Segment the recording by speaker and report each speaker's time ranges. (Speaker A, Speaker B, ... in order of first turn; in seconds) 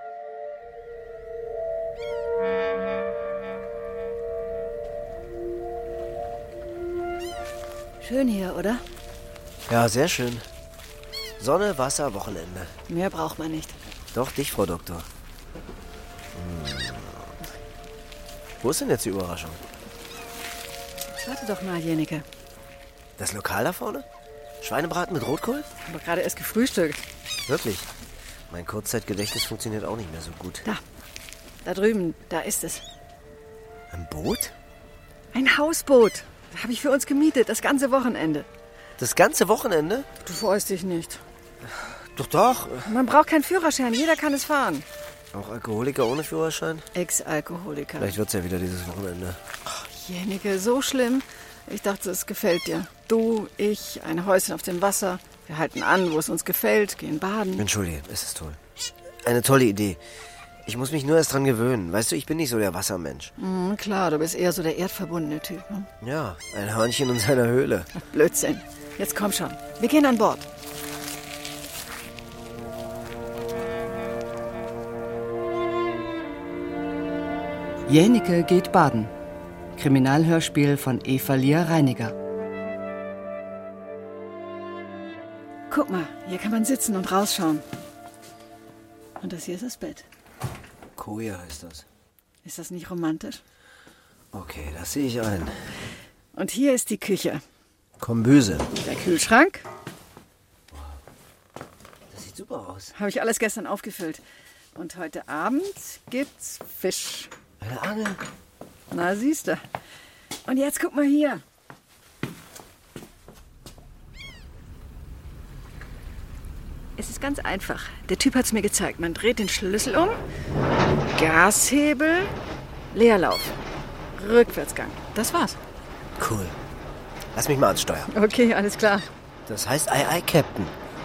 Speaker A: 8.0-8.8, 12.9-13.8, 21.1-22.2, 25.9-27.0, 31.6-32.8, 35.3-38.5, 40.2-41.2, 42.9-44.9, 47.0-48.1, 49.7-57.6, 63.4-65.9, 68.1-70.5, 85.7-87.6, 89.2-90.0, 92.4-93.4, 96.3-97.4, 98.8-99.6, 103.0-104.2, 104.7-107.3, 108.9-109.6, 110.5-111.4, 117.0-120.2, 121.1-122.3, 122.9-123.5, 124.2-125.6, 128.1-129.1
Speaker B: 9.7-10.4, 11.4-12.7, 14.1-15.1, 16.3-17.3, 18.6-19.6, 23.2-24.1, 24.6-25.7, 27.4-27.9, 28.5-30.6, 33.9-34.5, 39.0-40.1, 41.7-42.9, 45.3-46.9, 48.0-49.4, 57.5-58.6, 59.2-60.0, 60.6-63.3, 66.0-67.9, 91.0-91.8, 94.3-95.6, 98.0-98.7, 102.1-102.9, 107.6-108.2, 126.2-126.6, 127.3-128.1, 129.5-130.7
Speaker C: 77.9-79.1, 79.8-82.2